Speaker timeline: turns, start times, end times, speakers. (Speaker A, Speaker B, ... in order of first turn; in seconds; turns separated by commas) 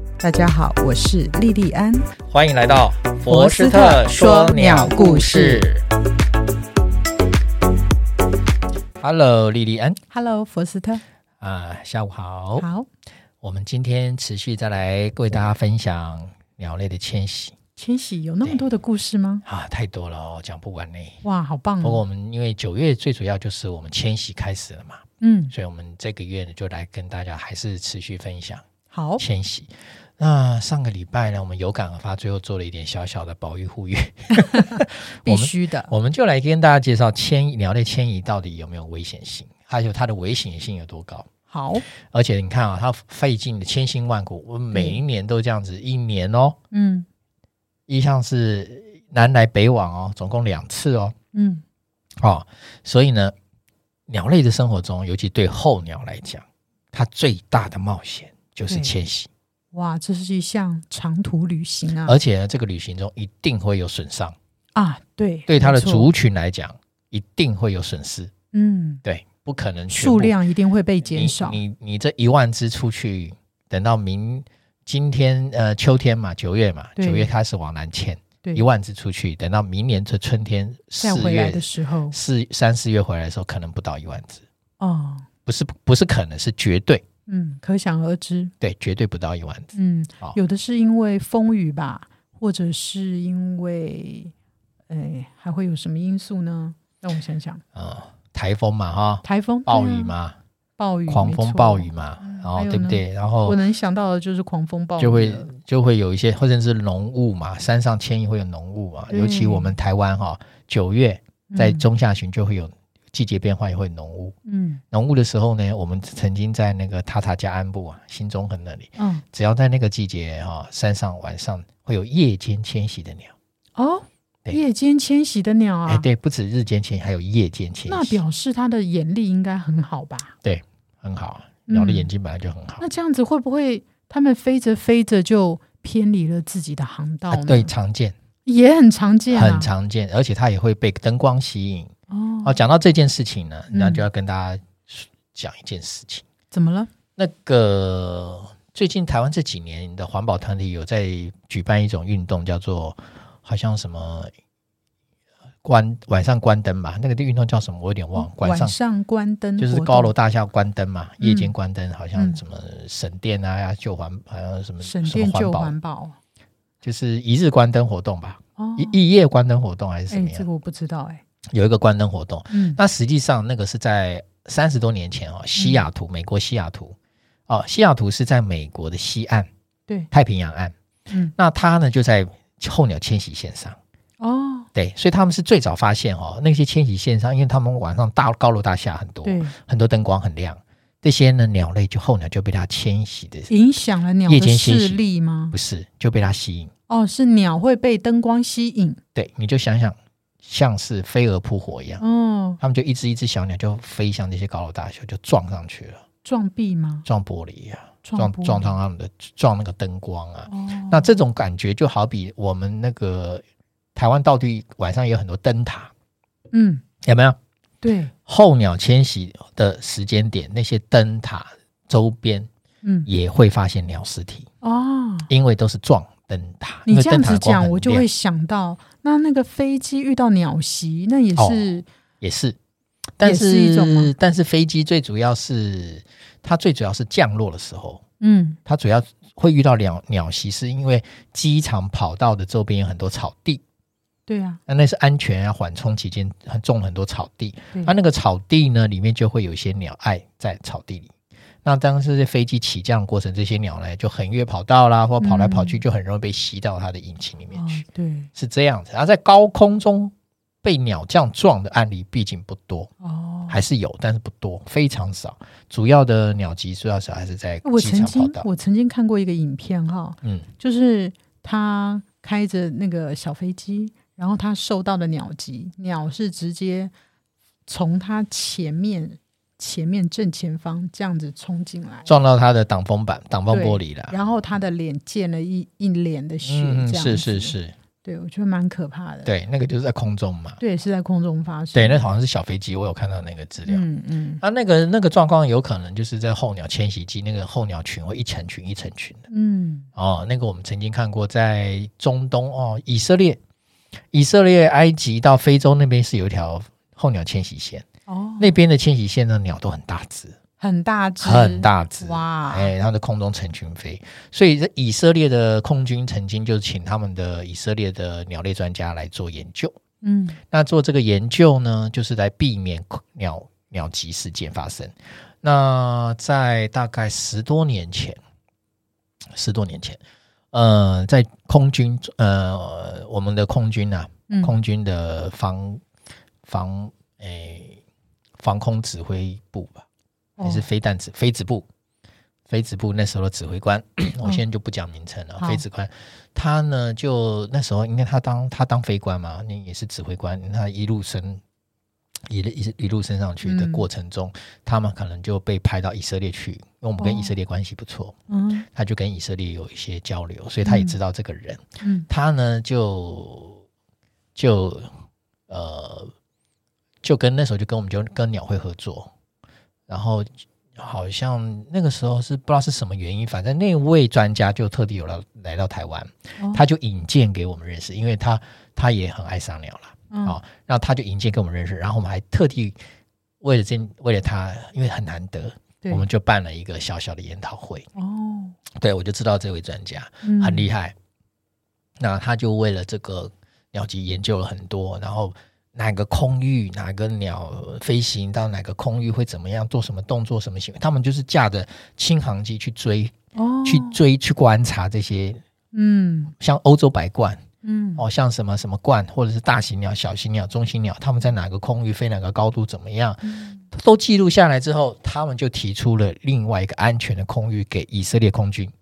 Speaker A: 0.2-2.1, Speaker B: 2.3-5.8, Speaker A: 3.3-5.7, Speaker B: 9.0-10.0, Speaker A: 10.1-11.0, Speaker B: 11.4-12.7, Speaker A: 12.6-12.9, Speaker B: 13.4-17.5, Speaker A: 17.8-19.4, Speaker B: 19.4-21.2, Speaker A: 21.2-22.0, Speaker B: 21.8-28.6, Speaker A: 25.2-25.5, Speaker A: 28.9-29.2, Speaker B: 29.2-41.3, Speaker A: 34.4-34.6, Speaker A: 35.2-35.9, Speaker A: 41.5-41.8, Speaker B: 42.0-46.5, Speaker A: 44.7-45.0, Speaker A: 46.7-47.0, Speaker B: 47.9-51.1, Speaker A: 51.3-51.6, Speaker B: 52.2-53.3, Speaker B: 54.1-59.3, Speaker A: 59.7-62.2, Speaker B: 62.0-64.3, Speaker A: 64.7-66.1, Speaker B: 65.5-68.3, Speaker A: 68.5-69.0, Speaker B: 69.0-70.3, Speaker A: 69.9-71.6, Speaker B: 71.0-84.4, Speaker A: 77.0-77.3, Speaker A: 81.0-82.2, Speaker A: 84.8-85.3, Speaker B: 85.5-87.0, Speaker A: 87.3-88.5, Speaker B: 88.6-89.7, Speaker A: 89.7-94.3, Speaker A: 94.9-97.6, Speaker B: 97.7-100.3, Speaker A: 99.2-100.1, Speaker A: 100.8-105.5, Speaker B: 101.1-103.6, Speaker B: 105.0-114.3, Speaker A: 109.1-109.8, Speaker A: 111.5-111.8, Speaker A: 114.5-114.8, Speaker B: 114.9-123.3, Speaker A: 119.0-119.2, Speaker A: 123.8-126.0, Speaker B: 125.9-128.2, Speaker A: 127.8-130.3, Speaker B: 130.4-132.8, Speaker A: 131.7-132.1, Speaker A: 132.8-137.7, Speaker B: 137.3-138.1, Speaker A: 138.4-139.7, Speaker B: 139.3-141.9, Speaker A: 142.1-142.6, Speaker B: 142.4-146.2, Speaker A: 143.7-144.0, Speaker A: 146.5-146.9, Speaker B: 147.2-154.3, Speaker B: 155.6-158.7, Speaker A: 158.2-160.1, Speaker B: 159.6-165.7, Speaker A: 161.2-161.5, Speaker A: 162.1-162.4, Speaker A: 164.8-166.2, Speaker B: 166.8-170.4, Speaker A: 168.6-169.0, Speaker A: 170.1-171.2, Speaker B: 171.5-176.9, Speaker A: 172.5-172.8, Speaker A: 175.6-175.8, Speaker B: 177.5-179.5, Speaker B: 180.1-180.7, Speaker B: 181.3-183.8, Speaker A: 184.2-184.7, Speaker B: 184.7-193.5, Speaker A: 189.2-189.5, Speaker A: 193.5-195.5, Speaker B: 194.3-196.7, Speaker A: 196.9-199.0, Speaker B: 199.1-202.0, Speaker A: 202.0-202.6, Speaker B: 202.6-206.0, Speaker A: 206.2-207.1, Speaker B: 207.1-213.4, Speaker A: 208.0-208.7, Speaker A: 210.5-211.1, Speaker B: 213.9-215.9, Speaker A: 216.5-216.8, Speaker B: 217.0-217.4, Speaker A: 217.8-218.1, Speaker B: 218.2-222.5, Speaker A: 222.8-223.1, Speaker B: 223.1-224.5, Speaker A: 224.6-225.3, Speaker B: 225.3-228.0, Speaker A: 226.8-231.8, Speaker B: 231.3-231.7, Speaker B: 232.2-232.6, Speaker B: 233.2-238.0, Speaker A: 233.2-234.1, Speaker A: 238.2-238.6, Speaker B: 238.7-243.6, Speaker A: 244.3-244.6, Speaker B: 244.7-251.1, Speaker B: 251.6-257.8, Speaker A: 255.2-255.8, Speaker A: 257.5-258.3, Speaker B: 258.3-262.9, Speaker A: 263.0-263.6, Speaker B: 263.5-268.5, Speaker A: 267.6-276.9, Speaker A: 277.7-282.1, Speaker B: 282.1-284.1, Speaker A: 283.5-289.3, Speaker B: 286.4-287.7, Speaker B: 289.2-290.6, Speaker A: 290.6-292.0, Speaker B: 291.7-293.8, Speaker A: 293.7-294.4, Speaker B: 294.4-299.2, Speaker A: 299.3-299.9, Speaker B: 299.9-303.4, Speaker B: 304.1-307.8, Speaker A: 308.1-308.5, Speaker B: 308.4-310.4, Speaker A: 310.6-312.7, Speaker B: 311.2-319.7, Speaker A: 320.0-320.4, Speaker B: 320.5-328.2, Speaker B: 329.3-330.0, Speaker B: 330.5-335.8, Speaker A: 334.3-334.6, Speaker B: 336.4-337.8, Speaker B: 338.4-339.9, Speaker A: 340.4-340.7, Speaker B: 340.4-341.6, Speaker B: 342.5-351.4, Speaker B: 352.3-358.1, Speaker A: 353.4-353.9, Speaker A: 357.0-357.3, Speaker A: 358.3-358.6, Speaker B: 358.7-363.6, Speaker A: 360.6-361.0, Speaker A: 361.8-362.1, Speaker B: 364.3-364.9, Speaker B: 365.5-366.1, Speaker B: 367.0-369.1, Speaker B: 369.9-382.8, Speaker A: 376.4-376.6, Speaker A: 380.1-380.4, Speaker B: 383.4-387.9, Speaker A: 387.9-388.6, Speaker B: 388.7-390.9, Speaker A: 390.2-390.7, Speaker B: 392.0-403.1, Speaker A: 403.3-404.0, Speaker B: 403.6-405.4, Speaker A: 405.7-406.3, Speaker B: 406.4-407.4, Speaker A: 407.6-408.0, Speaker B: 408.0-418.7, Speaker A: 413.2-413.6